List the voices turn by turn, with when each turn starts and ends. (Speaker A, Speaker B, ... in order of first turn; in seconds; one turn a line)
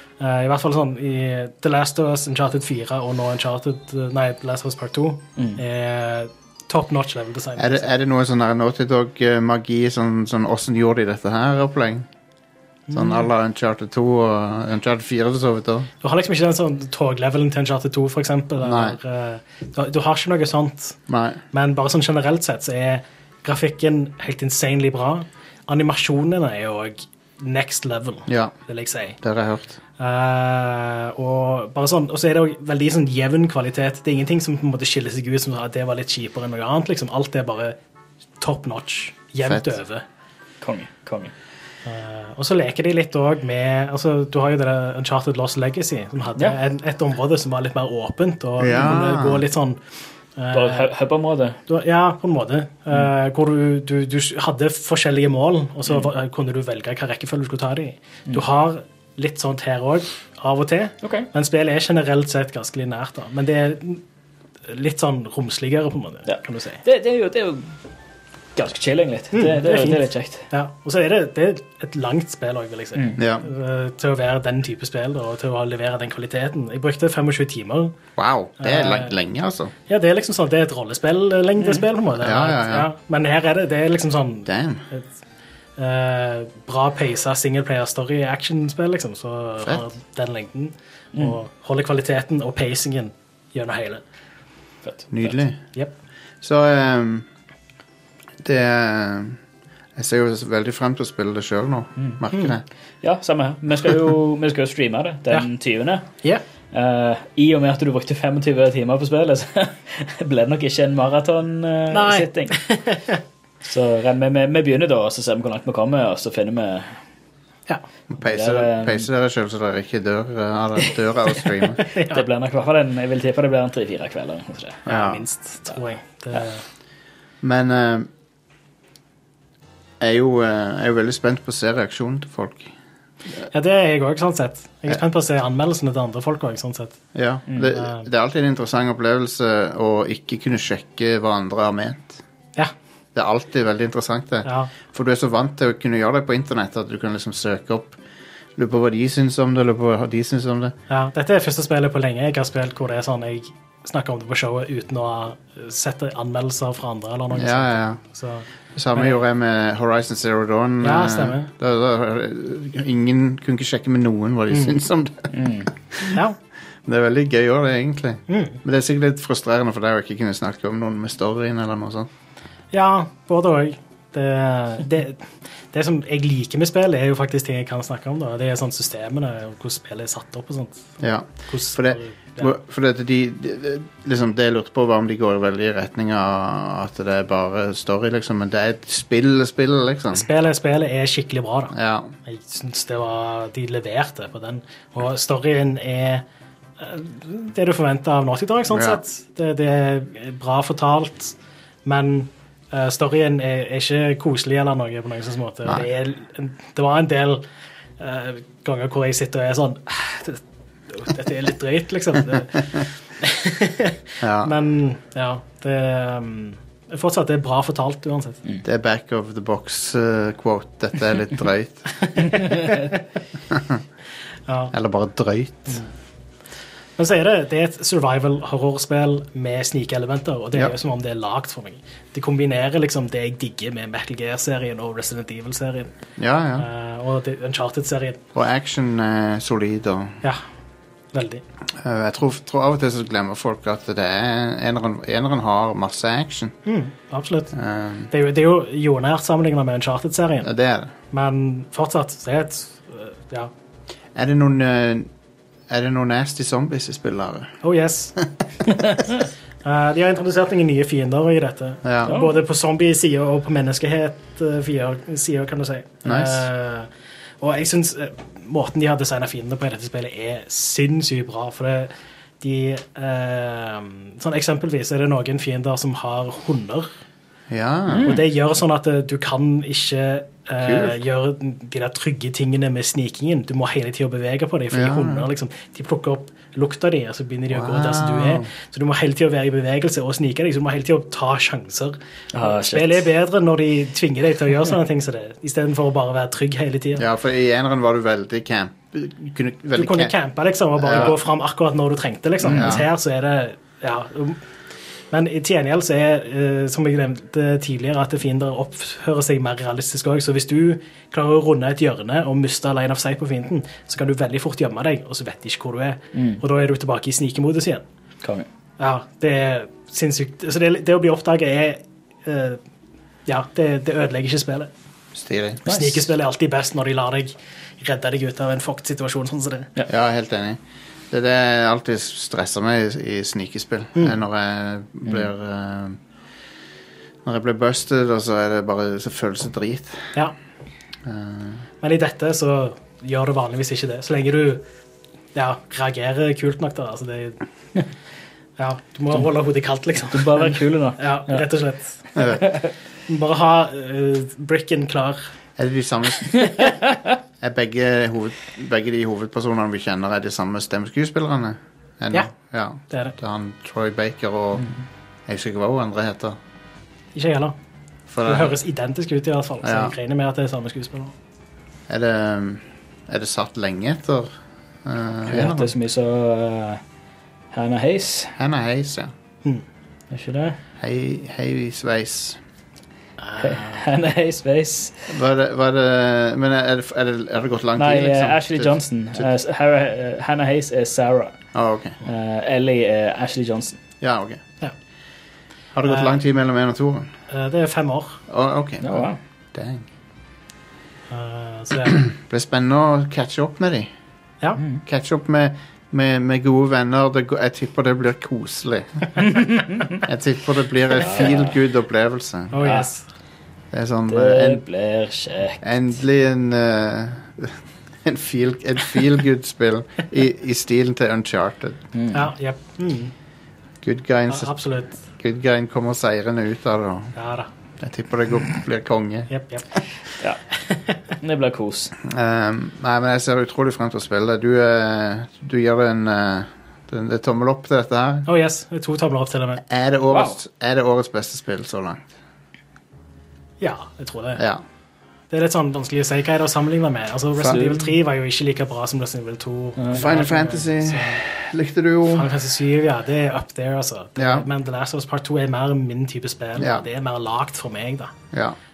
Speaker A: 0.2-7.9
Speaker B: 7.6-12.1
Speaker A: 12.9-13.2
Speaker B: 12.9-15.9
Speaker A: 16.0-21.0
Speaker B: 18.6-19.0
Speaker B: 21.1-21.4
Speaker A: 21.5-29.2
Speaker B: 28.3-28.6
Speaker B: 29.2-29.8
Speaker A: 30.0-37.8
Speaker A: 38.4-40.0
Speaker B: 39.4-39.8
Speaker C: 40.6-41.3
Speaker A: 41.9-49.8
Speaker B: 48.6-49.5
Speaker A: 50.4-50.9
Speaker C: 50.5-51.6
Speaker A: 51.7-64.0
Speaker C: 61.0-61.3
Speaker A: 64.7-66.8
Speaker C: 66.3-67.7
Speaker C: 68.6-70.5
Speaker A: 69.3-78.0
Speaker C: 73.0-73.2
Speaker B: 73.2-73.5
Speaker B: 78.2-79.7
Speaker A: 78.6-79.1
Speaker A: 79.9-85.0
Speaker B: 82.1-82.9
Speaker B: 84.5-84.8
Speaker A: 85.8-94.0
Speaker B: 89.6-89.9
Speaker C: 94.8-95.4
Speaker B: 95.1-95.6
Speaker B: 96.4-97.3
Speaker B: 98.4-99.4
Speaker B: 100.0-102.6
Speaker C: 103.0-106.1
Speaker C: 106.7-112.6
Speaker A: 111.9-113.2
Speaker C: 113.6-117.0
Speaker B: 118.1-121.8
Speaker C: 118.2-119.1
Speaker A: 121.8-122.2
Speaker C: 122.1-124.8
Speaker B: 124.9-125.2
Speaker A: 124.9-126.6
Speaker B: 127.4-128.1
Speaker B: 130.0-132.7
Speaker A: 133.5-137.0
Speaker B: 137.2-142.2
Speaker A: 137.7-138.1
Speaker B: 143.2-148.0
Speaker A: 144.4-144.7
Speaker B: 148.6-150.8
Speaker A: 150.9-158.4
Speaker B: 157.3-158.0
Speaker B: 158.7-165.3
Speaker A: 160.8-161.5
Speaker C: 165.3-165.7
Speaker B: 165.9-166.2
Speaker B: 166.8-172.1
Speaker A: 168.3-168.6
Speaker A: 172.7-180.8
Speaker B: 181.0-190.3
Speaker A: 181.5-182.5
Speaker A: 190.1-191.7
Speaker B: 191.7-192.1
Speaker A: 192.3-196.2
Speaker A: 196.8-201.3
Speaker B: 198.7-199.0
Speaker A: 201.8-207.4
Speaker A: 208.0-218.4
Speaker B: 214.2-214.6
Speaker B: 218.6-221.9
Speaker A: 222.2-222.8
Speaker C: 222.3-222.8
Speaker B: 223.5-223.8
Speaker A: 224.5-224.7
Speaker B: 224.7-225.8
Speaker A: 227.0-235.9
Speaker B: 236.2-236.7
Speaker A: 236.6-238.2
Speaker B: 238.3-240.2
Speaker A: 241.1-241.4
Speaker B: 241.8-246.6
Speaker A: 246.7-247.5
Speaker B: 247.5-248.1
Speaker A: 248.1-250.5
Speaker B: 250.4-250.9
Speaker A: 251.1-253.5
Speaker B: 254.2-255.1
Speaker B: 255.7-257.5
Speaker A: 257.6-258.1
Speaker A: 259.6-266.9
Speaker B: 261.8-262.2
Speaker B: 266.1-266.5
Speaker A: 267.4-276.9
Speaker B: 277.5-278.2
Speaker C: 277.9-278.2
Speaker A: 278.0-297.1
Speaker B: 280.6-281.0
Speaker B: 284.7-285.3
Speaker B: 287.5-288.5
Speaker C: 292.3-293.1
Speaker B: 296.9-300.1
Speaker A: 299.8-304.4
Speaker B: 300.8-301.2
Speaker C: 302.4-302.8
Speaker B: 302.5-302.9
Speaker A: 305.1-317.8
Speaker C: 316.1-316.4
Speaker A: 318.8-322.6
Speaker A: 323.3-324.7
Speaker B: 325.1-325.6
Speaker C: 325.7-326.1
Speaker A: 325.7-329.7
Speaker B: 329.9-330.6
Speaker B: 331.1-336.0
Speaker B: 337.2-340.2
Speaker B: 341.1-341.7
Speaker A: 341.8-344.6
Speaker A: 345.4-347.4
Speaker A: 348.6-352.0
Speaker C: 350.1-351.4
Speaker B: 352.2-352.4
Speaker A: 353.1-355.2
Speaker B: 355.6-356.5
Speaker B: 357.4-364.7
Speaker A: 362.9-363.1
Speaker B: 365.3-366.4
Speaker A: 367.1-367.6
Speaker B: 368.1-368.6
Speaker A: 368.2-371.1
Speaker B: 369.6-369.9
Speaker B: 371.9-375.7
Speaker C: 375.3-376.8
Speaker C: 377.5-378.4
Speaker B: 378.4-379.1
Speaker C: 380.1-380.6
Speaker B: 380.8-382.4
Speaker A: 383.2-383.8
Speaker C: 383.4-385.1
Speaker B: 385.1-389.3
Speaker C: 387.8-391.4
Speaker B: 391.5-392.0
Speaker C: 392.0-393.8
Speaker B: 394.0-394.4
Speaker B: 395.7-397.1
Speaker A: 395.9-396.2
Speaker A: 397.3-398.2
Speaker B: 398.3-399.9
Speaker C: 398.8-399.2
Speaker A: 401.1-402.1
Speaker B: 401.9-403.9
Speaker B: 404.8-409.1
Speaker C: 409.3-409.9
Speaker B: 410.0-412.7
Speaker C: 411.0-411.6
Speaker A: 412.5-413.0
Speaker C: 412.6-412.9
Speaker B: 413.7-414.6
Speaker C: 414.1-415.6
Speaker B: 415.6-421.8
Speaker C: 421.9-422.3
Speaker A: 422.1-423.1
Speaker B: 423.8-424.5
Speaker A: 424.3-425.0
Speaker B: 425.1-427.1
Speaker A: 427.2-427.5
Speaker B: 427.8-429.3
Speaker A: 429.3-429.7
Speaker C: 431.2-431.9
Speaker B: 432.0-438.3
Speaker A: 438.3-439.6
Speaker B: 439.7-442.1
Speaker C: 440.1-440.4
Speaker A: 443.6-444.4
Speaker B: 444.4-444.6
Speaker A: 445.3-451.2
Speaker B: 447.4-447.7
Speaker C: 447.5-447.9
Speaker C: 449.8-450.0
Speaker B: 449.9-452.3
Speaker A: 452.1-458.2
Speaker B: 454.2-454.5
Speaker B: 456.6-456.9
Speaker B: 458.3-458.6